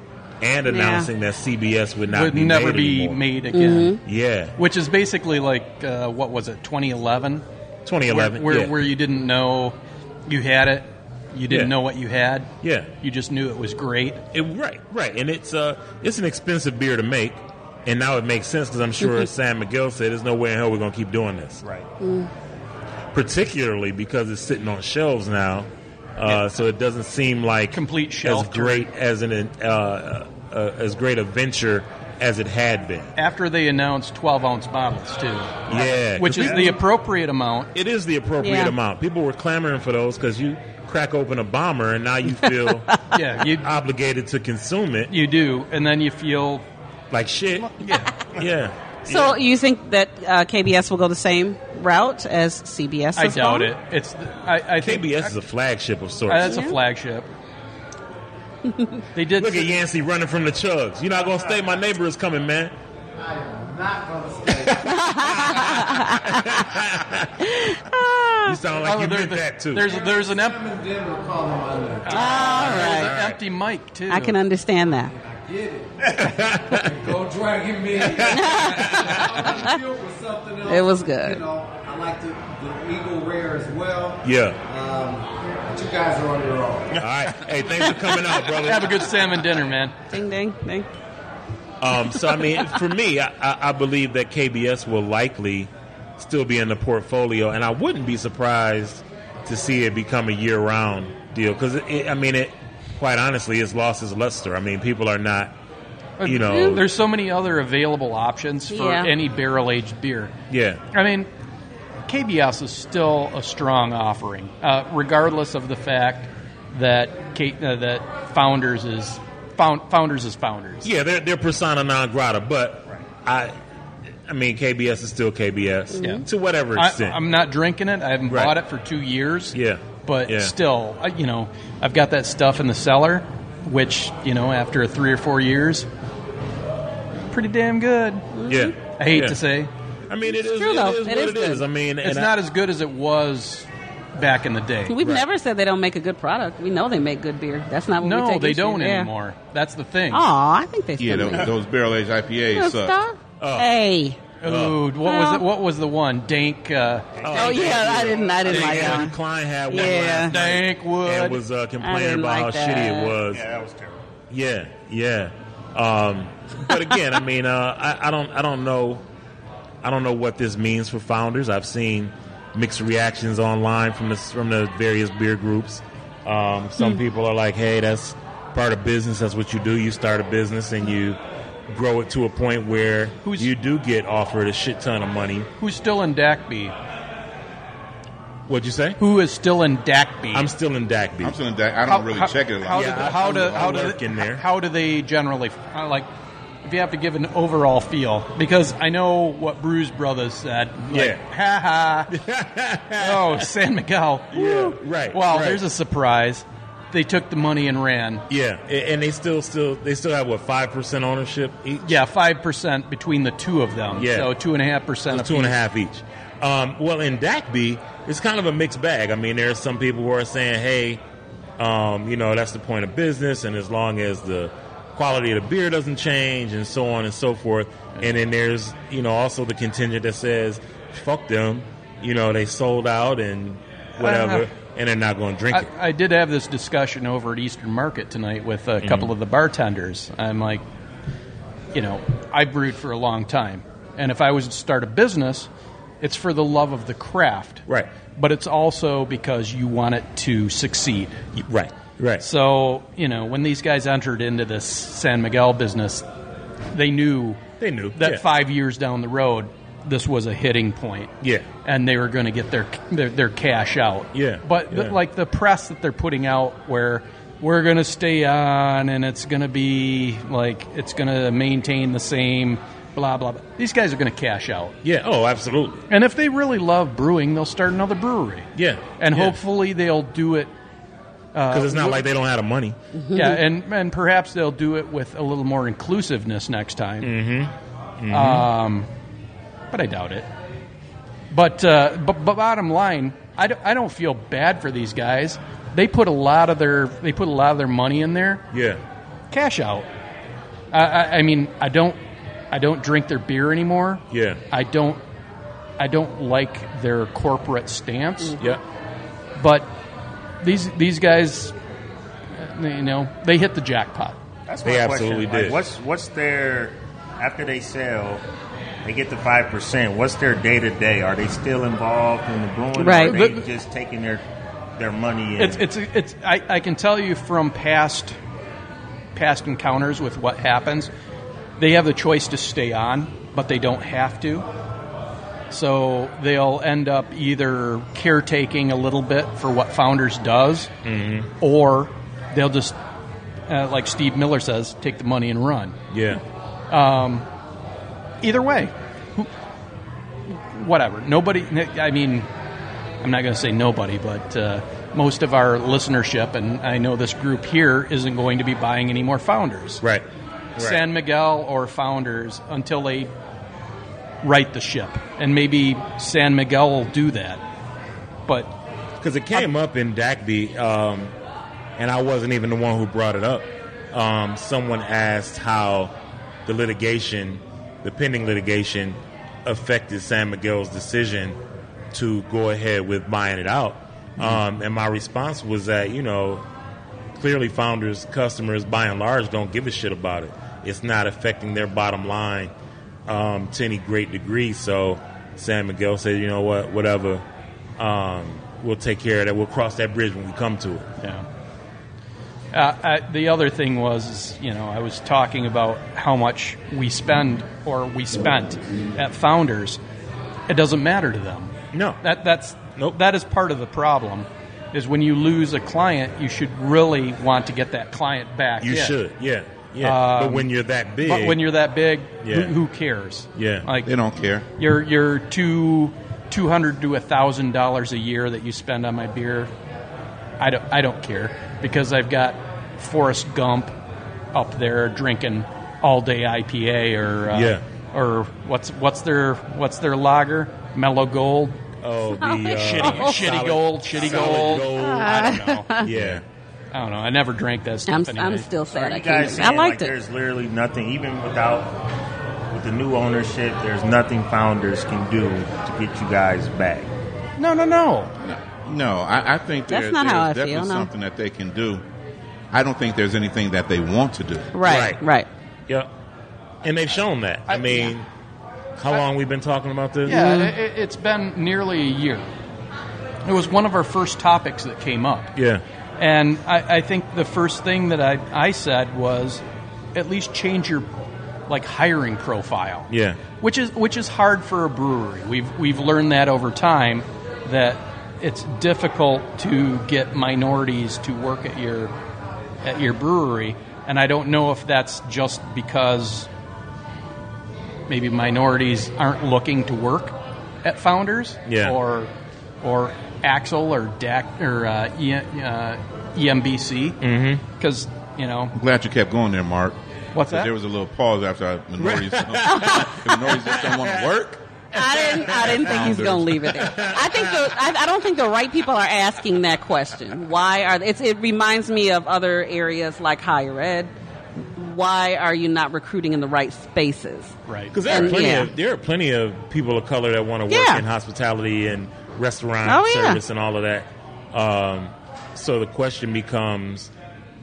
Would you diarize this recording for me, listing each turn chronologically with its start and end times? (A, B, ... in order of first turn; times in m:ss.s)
0:00.4-0:03.2 A
0:00.7-0:01.1 B
0:02.1-0:04.0 C
0:03.5-0:04.0 B
0:04.0-0:04.5 A
0:04.6-0:07.4 C
0:07.8-0:08.8 A
0:08.1-0:09.8 C
0:10.3-0:14.2 C
0:11.5-0:11.7 A
0:12.6-0:12.9 A
0:14.3-0:21.6 A
0:22.0-0:22.3 B
0:23.1-0:33.1 A
0:27.7-0:28.9 C
0:33.2-0:37.7 C
0:35.7-0:36.8 A
0:37.7-0:42.9 A
0:38.4-0:38.7 B
0:43.1-0:43.7 C
0:43.6-0:45.1 A
0:45.1-0:46.6 C
0:47.1-0:49.4 A
0:47.6-0:48.1 C
0:49.1-0:53.7 B
0:53.2-0:55.4 C
0:54.8-0:56.6 A
0:56.3-0:57.3 C
0:56.4-0:56.8 B
0:58.7-0:59.0 B
0:59.1-0:59.8 C
0:59.3-1:02.7 A
1:03.2-1:05.6 D
1:04.8-1:06.6 B
1:05.4-1:07.3 A
1:07.4-1:08.6 B
1:08.4-1:10.0 A
1:08.8-1:10.6 C
1:09.9-1:12.7 D
1:12.0-1:14.4 C
1:12.1-1:13.2 B
1:12.5-1:13.4 A
1:14.1-1:15.1 B
1:15.0-1:27.0 D
1:16.1-1:17.1 A
1:18.2-1:19.4 A
1:18.2-1:19.8 B
1:20.6-1:21.4 B
1:24.2-1:24.6 A
1:27.0-1:29.0 A
1:28.6-1:29.9 C
1:30.1-1:30.9 B
1:31.8-1:45.5 A
1:46.2-1:50.3 C
1:46.2-1:46.8 A
1:46.5-1:46.8 B
1:48.7-1:49.1 B
1:50.5-1:50.8 A
1:50.9-1:51.3 C
1:52.1-2:00.9 C
2:00.8-2:03.6 A
2:04.2-2:07.2 A
2:06.7-2:15.9 C
2:08.3-2:08.6 A
2:09.5-2:10.5 A
2:17.3-2:18.3 C
2:18.4-2:18.7 B
2:18.5-2:19.4 A
2:18.9-2:19.7 C
2:20.1-2:22.3 A
2:20.4-2:21.6 B
2:22.0-2:24.9 C
2:24.9-2:29.1 B
2:25.0-2:25.2 A
2:28.0-2:30.3 C
2:30.1-2:31.5 B
2:31.0-2:33.0 E
2:32.5-2:34.2 B
2:33.4-2:33.7 A
2:34.4-2:39.1 C
2:34.4-2:34.8 A
2:35.0-2:35.4 B
2:37.2-2:38.4 F
2:37.2-2:43.4 A
2:37.3-2:39.1 B
2:39.7-2:40.3 B
2:40.2-2:41.4 C
2:41.8-2:43.2 B
2:43.2-2:44.0 F
2:44.3-2:49.0 A
2:49.8-3:01.2 A
3:01.7-3:05.5 A
3:03.2-3:03.5 C
3:05.6-3:06.7 C
3:08.5-3:09.0 A
3:09.0-3:10.5 C
3:10.3-3:11.4 A
3:11.2-3:13.8 E
3:11.9-3:16.1 C
3:12.7-3:14.4 A
3:16.6-3:22.1 C
3:20.9-3:21.2 A
3:22.1-3:23.5 A
3:23.0-3:28.2 C
3:24.3-3:25.6 A
3:28.3-3:31.9 A
3:31.8-3:35.6 C
3:34.0-3:34.3 A
3:35.1-3:41.0 A
3:41.6-3:55.7 A
3:54.0-3:54.5 C
3:55.5-4:00.6 C
3:58.8-3:59.1 A
4:01.7-4:05.5 C
4:06.0-4:11.4 C
4:07.7-4:07.9 A
4:11.4-4:12.2 A
4:12.2-4:16.0 C
4:16.7-4:17.4 C
4:17.6-4:18.2 A
4:18.0-4:21.1 C
4:21.2-4:21.5 A
4:21.6-4:34.7 C
4:24.1-4:25.0 A
4:34.8-4:35.8 A
4:35.9-4:40.5 C
4:38.5-4:39.4 A
4:41.3-4:42.1 C
4:41.5-4:42.8 A
4:43.0-4:43.4 B
4:43.1-4:47.1 C
4:47.0-4:48.5 A
4:48.1-4:48.9 C
4:49.7-4:50.3 C
4:51.3-4:58.4 C
4:58.5-4:58.8 A
4:59.3-4:59.9 C
5:00.7-5:02.0 C
5:02.5-5:05.0 C
5:04.1-5:04.4 A
5:05.8-5:08.4 C
5:09.4-5:09.7 C
5:10.4-5:11.5 C
5:12.3-5:14.2 C
5:14.5-5:18.2 F
5:14.6-5:15.6 A
5:18.8-5:24.2 F
5:22.8-5:23.2 B
5:22.9-5:23.4 C
5:24.8-5:25.6 F
5:25.4-5:28.1 C
5:29.1-5:30.9 C
5:31.6-5:34.4 C
5:35.5-5:40.7 C
5:40.8-5:41.3 A
5:41.4-5:42.8 C
5:43.5-5:45.8 C
5:45.9-5:46.2 A
5:46.7-5:47.2 C
5:48.2-5:49.3 C
5:50.5-5:52.3 C
5:53.0-5:59.8 C
6:00.6-6:00.8 A
6:00.6-6:03.1 C
6:04.2-6:07.4 C
6:08.3-6:08.5 C
6:09.0-6:11.1 A
6:11.8-6:15.9 A
6:16.4-6:21.4 A
6:21.9-6:26.4 A
6:27.1-6:32.5 A
6:33.1-6:37.2 A
6:37.8-6:40.9 A
6:41.0-6:41.2 C
6:42.5-6:49.8 C
6:50.5-6:59.0 C
6:51.7-6:52.0 A
6:58.6-7:01.4 A
6:59.8-7:04.0 C
7:02.2-7:02.6 A
7:03.3-7:03.7 A
7:03.8-7:04.4 E
7:04.6-7:09.5 C
7:10.4-7:13.7 C
7:14.3-7:21.6 C
7:17.3-7:17.6 A
7:21.8-7:25.1 A
7:22.2-7:23.3 B
7:22.5-7:25.7 C
7:24.7-7:25.9 B
7:25.8-7:26.2 A
7:25.9-7:26.2 E
7:26.7-7:29.4 C
7:27.9-7:29.9 B
7:28.7-7:31.7 F
7:32.5-7:36.9 F
7:37.4-7:38.1 C
7:38.2-7:41.8 E
7:39.7-7:40.9 B
7:42.5-7:44.5 E
7:44.5-7:45.3 B
7:44.6-7:45.0 A
7:46.6-7:48.1 A
7:47.5-7:47.9 C
7:48.8-7:50.3 A
7:50.1-7:52.3 C
7:50.1-7:50.5 B
7:53.2-7:55.3 C
7:55.3-7:55.6 A
7:56.0-7:59.4 C
7:59.9-8:00.9 C
8:01.5-8:02.9 C
8:02.9-8:03.2 A
8:03.4-8:11.9 C
8:12.6-8:16.3 C
8:17.9-8:22.1 C
8:21.5-8:21.8 A
8:22.6-8:27.0 C
8:27.0-8:27.4 A
8:27.6-8:28.5 C
8:28.5-8:29.8 E
8:30.1-8:30.5 C
8:30.3-8:34.4 E
8:31.8-8:34.1 A
8:32.5-8:32.8 B
8:34.7-8:43.9 B
8:34.8-8:35.9 A
8:35.2-8:36.6 E
8:36.5-8:37.5 A
8:44.4-8:47.3 B
8:47.5-8:48.1 C
8:47.7-8:56.9 A
8:47.9-8:48.5 B
8:50.5-8:50.8 B
8:52.6-8:53.2 B